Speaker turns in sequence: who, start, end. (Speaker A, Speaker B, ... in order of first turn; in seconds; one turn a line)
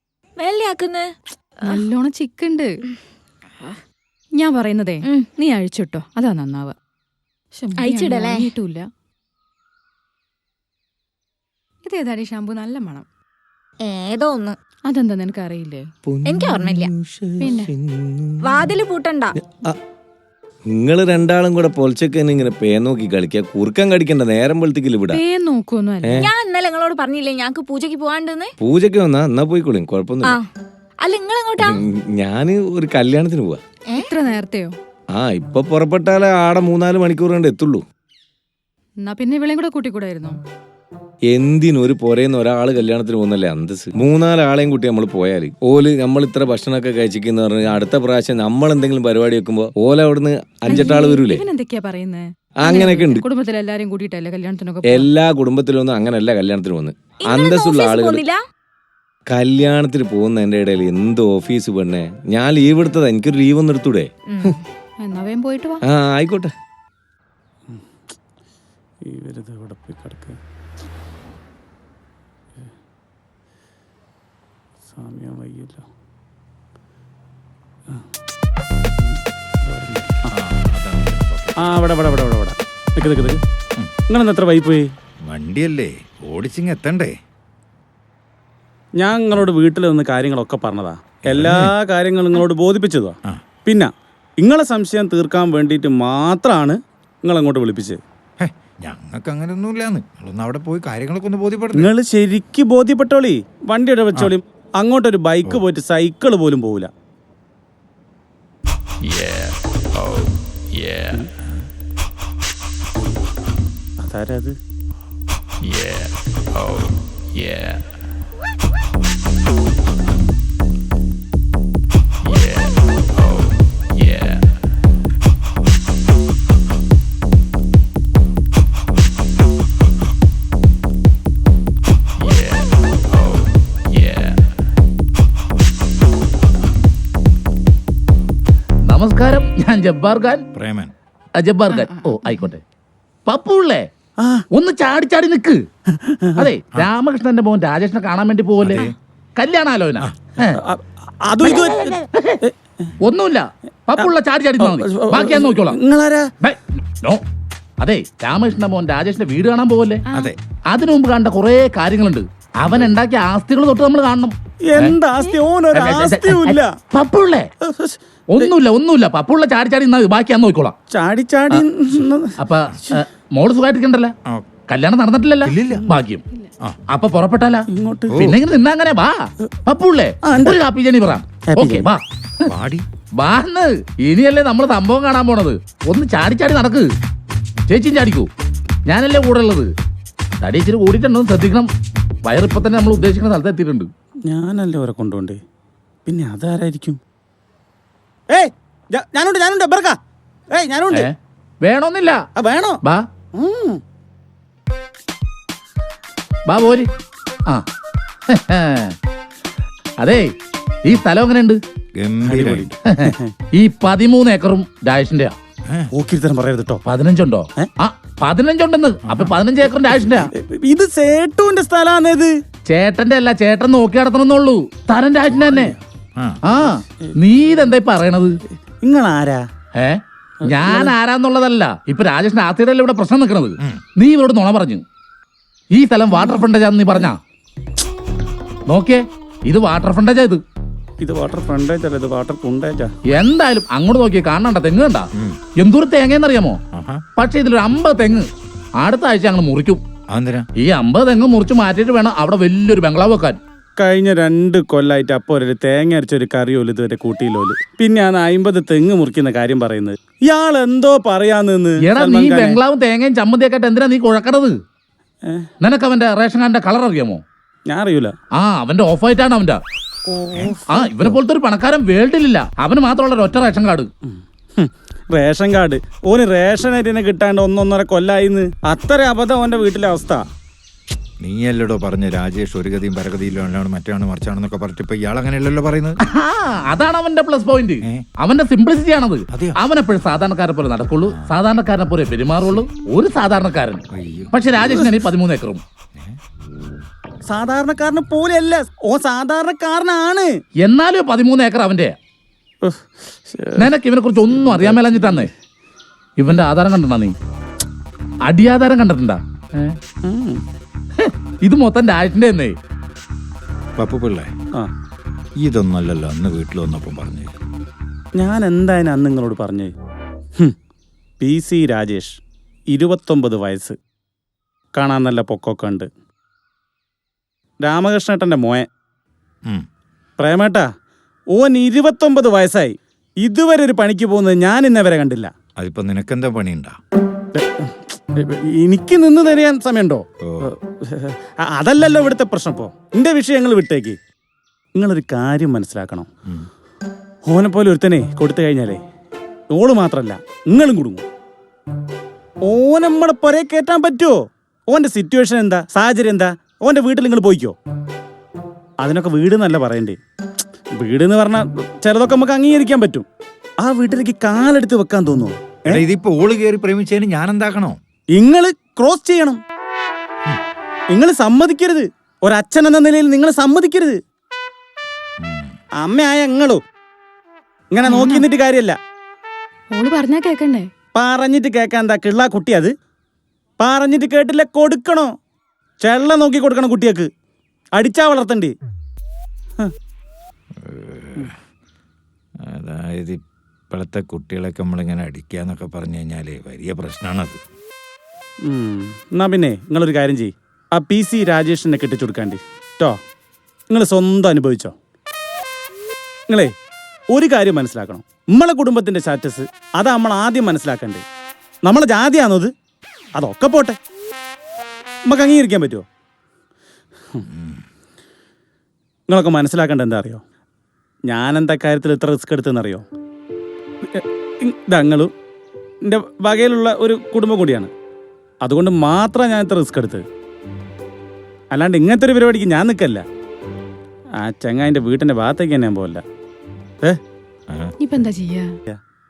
Speaker A: 0.4-1.0
Speaker B: 1.7-2.7
Speaker B: 4.4-6.8
Speaker B: 7.6-8.9
Speaker A: 7.8-8.5
Speaker B: 11.8-13.1
Speaker A: 13.8-14.6
Speaker B: 14.9-15.9
Speaker C: 16.1-18.3
Speaker A: 16.2-16.9
Speaker B: 17.4-17.7
Speaker A: 18.4-19.4
Speaker C: 20.7-25.2
Speaker B: 25.1-26.3
Speaker A: 26.2-28.5
Speaker C: 28.6-30.3
Speaker A: 31.0-31.9
Speaker C: 31.7-33.6
Speaker B: 34.0-34.8
Speaker C: 35.1-37.8
Speaker B: 39.0-40.4
Speaker C: 41.3-51.4
Speaker B: 50.7-55.1
Speaker C: 55.1-58.2
Speaker A: 57.2-58.4
Speaker C: 59.3-64.1
Speaker A: 64.3-64.6
Speaker B: 65.0-65.8
Speaker C: 65.9-66.5
Speaker D: 69.0-70.4
Speaker D: 74.9-75.8
Speaker D: 79.7-80.3
Speaker E: 80.3-81.5
Speaker D: 81.6-83.4
Speaker D: 84.1-84.9
Speaker E: 85.3-87.1
Speaker D: 89.0-98.0
Speaker E: 91.3-91.7
Speaker E: 98.4-101.9
Speaker D: 101.7-106.9
Speaker D: 114.0-114.5
Speaker F: 115.8-116.1
Speaker F: 117.5-117.8
Speaker F: 124.0-124.4
Speaker F: 132.2-132.7
Speaker F: 133.9-134.4
Speaker F: 138.9-140.4
Speaker E: 140.5-140.9
Speaker F: 141.4-142.6
Speaker F: 143.3-143.9
Speaker D: 144.2-144.4
Speaker F: 144.5-145.6
Speaker D: 145.9-146.4
Speaker F: 146.4-150.6
Speaker E: 148.6-148.9
Speaker D: 150.6-152.9
Speaker F: 153.0-155.8
Speaker D: 154.0-156.3
Speaker F: 156.4-157.2
Speaker F: 157.8-160.0
Speaker E: 160.1-160.4
Speaker F: 160.7-165.0
Speaker D: 164.7-166.8
Speaker F: 165.7-167.5
Speaker D: 167.7-168.5
Speaker F: 168.3-170.8
Speaker D: 170.9-172.3
Speaker F: 172.4-174.1
Speaker F: 174.7-176.2
Speaker E: 175.4-175.8
Speaker F: 176.9-177.6
Speaker D: 177.7-178.1
Speaker E: 178.1-178.4
Speaker F: 178.2-182.5
Speaker D: 180.2-180.6
Speaker D: 181.5-181.8
Speaker E: 182.5-182.9
Speaker F: 183.2-186.9
Speaker F: 187.7-188.3
Speaker F: 188.9-189.7
Speaker F: 190.4-191.7
Speaker F: 192.3-193.9
Speaker D: 194.3-195.4
Speaker D: 196.1-197.0
Speaker D: 198.3-200.0
Speaker D: 200.5-201.1
Speaker F: 201.6-202.2
Speaker D: 202.4-202.8
Speaker D: 203.3-203.8
Speaker F: 206.5-206.9
Speaker F: 208.3-208.9
Speaker F: 210.0-210.3
Speaker F: 210.9-211.6
Speaker E: 211.9-212.7
Speaker D: 212.2-213.3
Speaker F: 212.9-215.3
Speaker D: 215.9-216.8
Speaker F: 216.9-220.3
Speaker E: 219.1-219.3
Speaker D: 220.2-222.3
Speaker F: 222.7-225.8
Speaker F: 226.4-228.4
Speaker D: 228.8-229.4
Speaker F: 229.8-234.8
Speaker D: 230.4-230.9
Speaker F: 235.8-237.2
Speaker F: 238.7-240.4
Speaker D: 241.0-242.9
Speaker F: 243.1-246.6
Speaker E: 246.7-247.0
Speaker F: 247.2-248.3
Speaker F: 248.8-249.8
Speaker E: 250.1-250.5
Speaker F: 250.6-253.4
Speaker D: 253.8-262.6
Speaker F: 261.8-264.6
Speaker F: 265.6-267.2
Speaker D: 267.7-268.1
Speaker F: 268.4-269.6
Speaker D: 270.1-271.1
Speaker F: 270.7-273.9
Speaker D: 274.1-280.2
Speaker E: 281.2-286.0
Speaker F: 286.1-295.6
Speaker E: 289.3-289.6
Speaker E: 293.9-294.4
Speaker D: 297.3-300.3
Speaker F: 300.6-301.9
Speaker D: 302.6-303.6
Speaker F: 303.6-305.3
Speaker D: 304.6-305.1
Speaker F: 306.2-307.1
Speaker F: 308.3-309.8
Speaker D: 310.0-310.4
Speaker F: 311.0-312.6
Speaker E: 313.8-314.3
Speaker E: 315.4-317.3
Speaker D: 318.2-319.7
Speaker D: 321.2-323.8
Speaker D: 324.8-325.9
Speaker D: 327.6-328.7
Speaker D: 330.2-330.7
Speaker D: 331.3-335.3
Speaker E: 335.6-336.8
Speaker D: 337.4-344.0
Speaker E: 340.2-340.5
Speaker D: 344.8-346.1
Speaker D: 347.3-348.8
Speaker D: 349.5-351.0
Speaker D: 352.4-357.6
Speaker D: 358.8-360.0
Speaker D: 360.8-363.1
Speaker D: 363.6-365.8
Speaker E: 365.7-367.8
Speaker D: 368.1-369.4
Speaker D: 370.9-374.0
Speaker E: 375.2-375.5
Speaker D: 375.8-376.6
Speaker D: 377.7-378.8
Speaker B: 377.8-378.3
Speaker B: 379.7-380.7
Speaker D: 380.9-382.7
Speaker D: 383.6-385.1
Speaker D: 385.8-387.1
Speaker D: 387.8-388.5
Speaker E: 390.6-391.3
Speaker E: 392.5-393.2
Speaker E: 393.7-397.4
Speaker D: 398.5-403.0
Speaker D: 403.7-404.7
Speaker D: 407.1-411.0
Speaker D: 411.6-412.5
Speaker D: 413.2-413.8
Speaker D: 415.1-415.9
Speaker E: 417.3-417.6
Speaker D: 419.1-420.2
Speaker D: 421.1-422.9
Speaker D: 423.9-425.1
Speaker D: 425.8-427.7
Speaker D: 428.4-430.1
Speaker D: 431.5-433.1
Speaker D: 434.2-436.0
Speaker B: 437.8-438.5